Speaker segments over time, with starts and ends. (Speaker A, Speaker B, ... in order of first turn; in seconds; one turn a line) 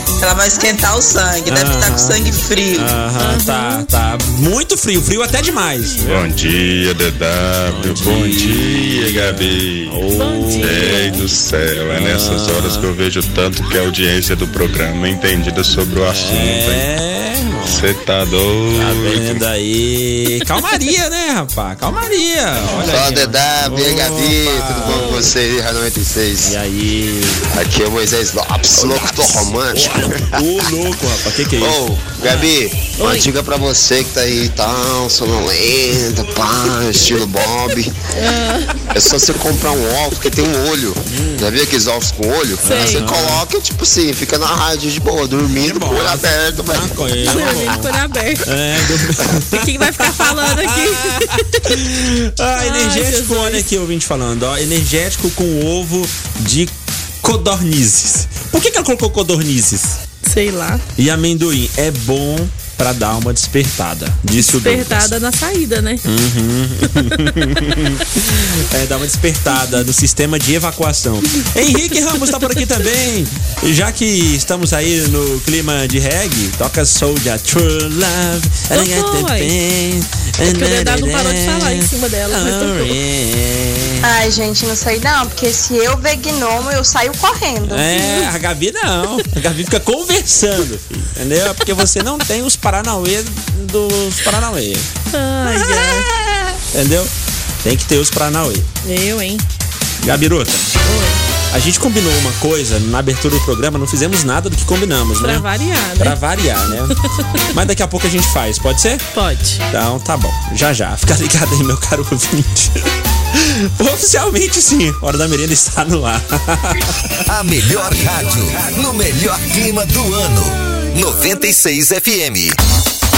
Speaker A: 0.2-2.9
Speaker B: 1.4-2.2
Speaker B: 2.7-6.3
Speaker C: 3.2-3.9
Speaker D: 6.0-10.0
Speaker B: 7.7-11.3
Speaker C: 10.1-11.2
Speaker D: 10.6-16.9
Speaker B: 11.9-12.9
Speaker B: 16.0-17.9
Speaker D: 17.7-19.4
Speaker B: 18.7-25.3
Speaker E: 22.7-26.6
Speaker C: 24.8-25.3
Speaker B: 26.4-27.5
Speaker E: 27.5-30.2
Speaker B: 28.7-31.8
Speaker E: 31.6-37.9
Speaker C: 33.0-33.3
Speaker C: 38.1-38.7
Speaker E: 38.9-47.0
Speaker B: 41.1-41.5
Speaker B: 42.6-43.4
Speaker C: 42.6-43.1
Speaker B: 45.5-60.0
Speaker C: 47.2-48.5
Speaker C: 49.5-51.6
Speaker C: 52.6-53.6
Speaker C: 60.2-60.8
Speaker B: 61.0-65.1
Speaker C: 64.4-66.0
Speaker B: 66.0-84.1
Speaker C: 72.2-72.6
Speaker C: 78.7-79.5
Speaker C: 80.4-83.0
Speaker F: 84.0-88.0
Speaker B: 87.7-94.9
Speaker C: 95.1-96.1
Speaker B: 95.4-96.1
Speaker B: 96.7-98.7
Speaker C: 98.8-99.4
Speaker B: 100.0-100.8
Speaker C: 100.8-101.2
Speaker B: 101.5-105.5
Speaker C: 105.2-106.9
Speaker B: 106.0-106.9
Speaker B: 107.5-109.0
Speaker C: 109.1-109.6
Speaker B: 109.7-112.8
Speaker B: 113.3-116.9
Speaker G: 117.3-122.6